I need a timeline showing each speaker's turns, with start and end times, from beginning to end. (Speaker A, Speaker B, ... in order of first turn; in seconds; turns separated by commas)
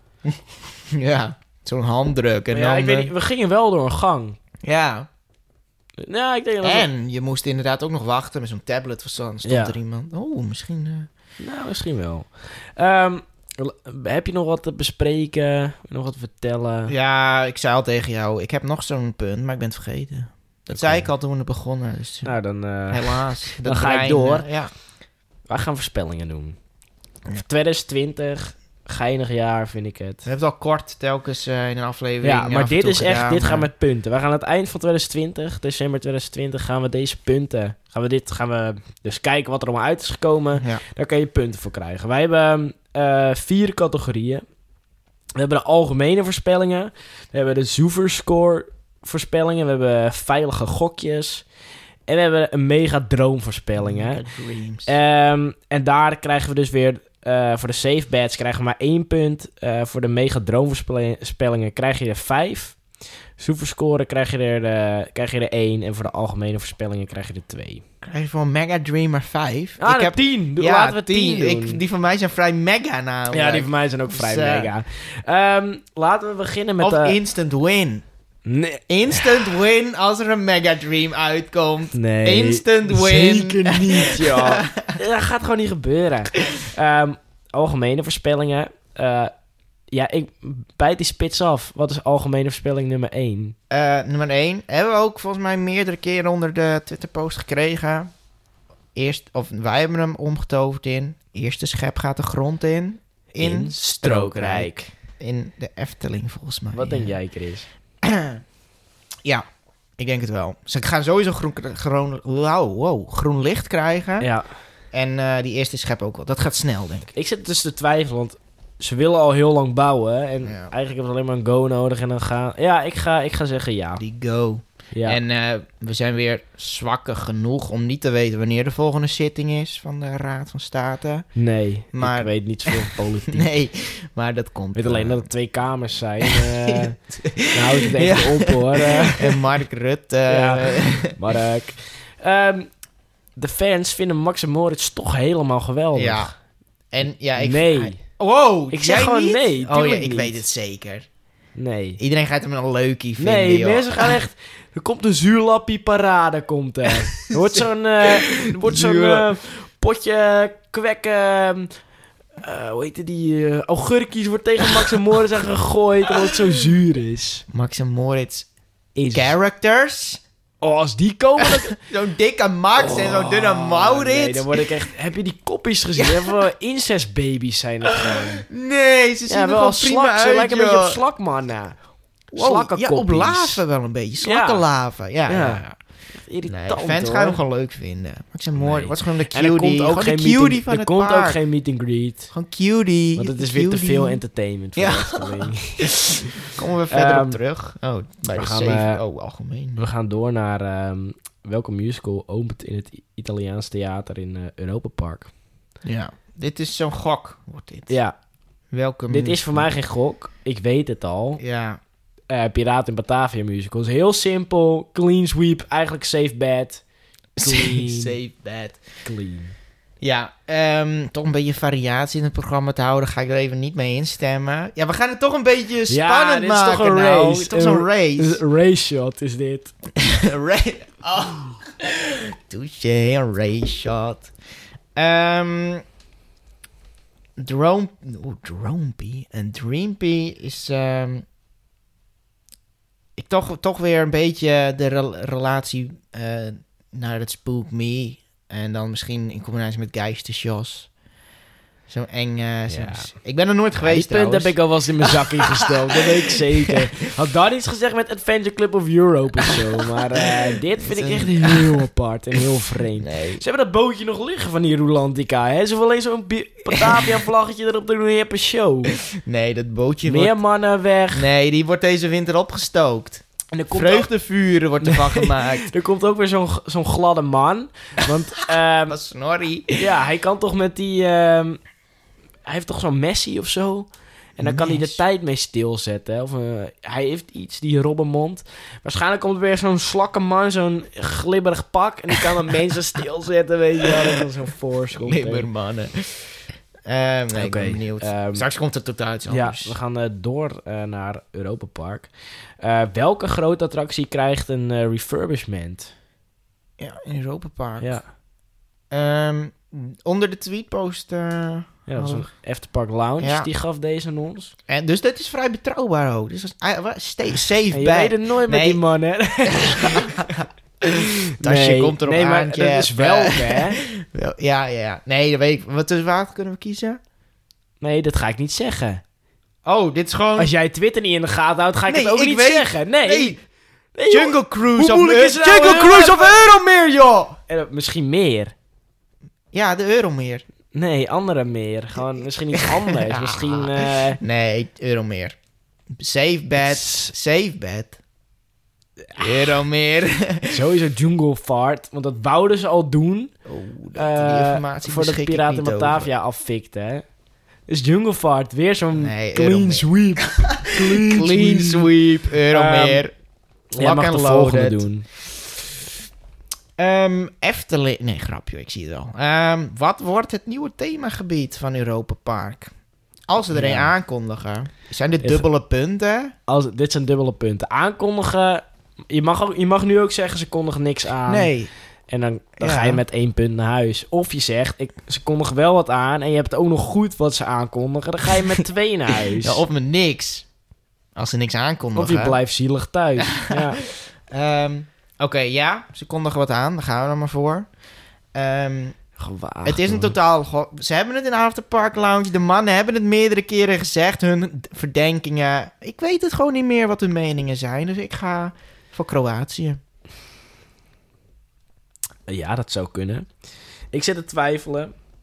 Speaker A: 0.2-3.1, Speaker B: 2.5-4.4, Speaker A: 4.6-5.1, Speaker B: 6.0-6.9, Speaker A: 6.6-11.1, Speaker B: 9.4-9.8, Speaker B: 11.4-16.9, Speaker A: 16.9-22.3, Speaker B: 20.7-21.1, Speaker B: 22.2-24.5, Speaker A: 22.9-24.7, Speaker B: 25.5-26.6, Speaker B: 27.3-30.2, Speaker A: 30.2-33.7, Speaker B: 32.2-44.4, Speaker A: 40.6-40.8, Speaker B: 45.4-51.4, Speaker B: 52.1-54.2, Speaker A: 53.8-54.9, Speaker B: 54.9-62.8, Speaker B: 63.4-67.8, Speaker A: 68.0-74.7, Speaker B: 69.8-71.8, Speaker B: 73.3-77.2, Speaker A: 76.8-78.0, Speaker B: 78.5-79.5, Speaker A: 78.9-85.0, Speaker B: 81.9-89.3, Speaker B: 89.9-93.5, Speaker A: 93.7-98.1, Speaker A: 98.9-107.2, Speaker B: 103.4-104.9, Speaker B: 106.7-107.7, Speaker A: 108.0-108.4, Speaker A: 110.0-114.3, Speaker B: 114.2-114.5, Speaker A: 114.9-117.1, Speaker B: 117.1-124.0, Speaker A: 120.4-120.7, Speaker A: 124.0-131.3, Speaker B: 124.9-125.2, Speaker B: 131.3-133.5, Speaker A: 131.9-135.2, Speaker B: 134.7-137.0, Speaker A: 136.2-141.2, Speaker B: 137.5-139.4, Speaker B: 140.3-142.7, Speaker B: 143.3-146.3, Speaker A: 145.9-146.3, Speaker A: 146.9-151.1, Speaker B: 147.4-148.0, Speaker B: 148.7-150.4, Speaker B: 151.6-152.0, Speaker A: 152.0-154.2, Speaker B: 153.2-161.7, Speaker A: 157.3-159.3, Speaker B: 162.4-167.4, Speaker A: 167.5-168.5, Speaker B: 168.9-169.3, Speaker A: 169.1-170.2, Speaker B: 170.6-171.8, Speaker A: 171.4-174.6, Speaker B: 172.8-178.4, Speaker A: 176.0-176.4, Speaker A: 177.9-181.0, Speaker B: 179.3-181.8, Speaker A: 182.3-185.8, Speaker B: 182.3-183.6, Speaker B: 184.2-184.7, Speaker B: 185.2-187.4, Speaker A: 186.5-191.4, Speaker B: 188.6-192.3, Speaker A: 192.3-194.2, Speaker B: 193.2-197.4, Speaker A: 194.8-199.8, Speaker B: 198.3-199.0, Speaker B: 199.8-205.3, Speaker A: 205.8-207.9, Speaker B: 207.9-208.1, Speaker A: 208.7-209.7, Speaker B: 209.1-211.4, Speaker A: 211.4-211.8, Speaker B: 212.3-216.8, Speaker A: 217.4-218.8, Speaker B: 217.4-218.2, Speaker B: 219.0-219.5, Speaker A: 220.0-228.4, Speaker B: 225.9-229.7, Speaker A: 229.9-234.3, Speaker A: 234.9-235.8, Speaker A: 237.4-241.2, Speaker A: 243.2-250.9, Speaker A: 251.9-256.9, Speaker B: 252.7-253.1, Speaker B: 253.8-268.9, Speaker A: 259.4-261.8, Speaker A: 262.8-263.4, Speaker A: 266.7-267.2, Speaker A: 268.9-270.3, Speaker B: 270.0-271.3, Speaker A: 271.1-275.7, Speaker B: 273.5-274.1, Speaker B: 274.8-279.0, Speaker A: 278.9-279.8, Speaker B: 279.8-281.6, Speaker B: 282.4-295.5, Speaker A: 284.4-285.0, Speaker A: 295.0-299.8, Speaker B: 297.3-298.4, Speaker B: 299.3-302.1, Speaker B: 302.6-305.9, Speaker A: 306.8-308.0, Speaker B: 307.8-308.1, Speaker A: 308.9-312.3, Speaker B: 311.9-314.5, Speaker A: 313.2-313.5, Speaker A: 314.7-318.8, Speaker B: 317.7-320.3, Speaker A: 319.4-327.0, Speaker B: 320.9-323.8, Speaker B: 327.8-329.0, Speaker A: 329.6-330.5, Speaker B: 330.4-333.4, Speaker A: 331.9-333.4, Speaker B: 333.9-336.5, Speaker A: 334.1-337.4, Speaker B: 337.5-338.5, Speaker A: 339.5-340.4, Speaker B: 340.7-344.2, Speaker A: 342.5-345.4, Speaker A: 346.0-348.0, Speaker B: 346.6-347.1, Speaker A: 349.1-350.6, Speaker B: 350.5-353.3, Speaker A: 353.4-356.1, Speaker B: 353.9-357.0, Speaker B: 357.7-361.9, Speaker A: 358.9-363.1, Speaker B: 362.5-363.0, Speaker A: 363.7-364.9, Speaker B: 363.7-365.1, Speaker A: 366.8-372.7, Speaker A: 373.3-376.3, Speaker B: 373.5-373.9, Speaker B: 376.5-381.5, Speaker A: 381.3-381.7, Speaker B: 382.1-389.6, Speaker A: 382.6-383.0, Speaker A: 389.2-390.4, Speaker A: 391.1-392.4, Speaker B: 391.9-393.8, Speaker A: 393.2-397.7, Speaker A: 398.3-399.0, Speaker B: 399.2-400.1, Speaker A: 399.6-409.8, Speaker B: 412.3-413.3, Speaker B: 413.9-414.9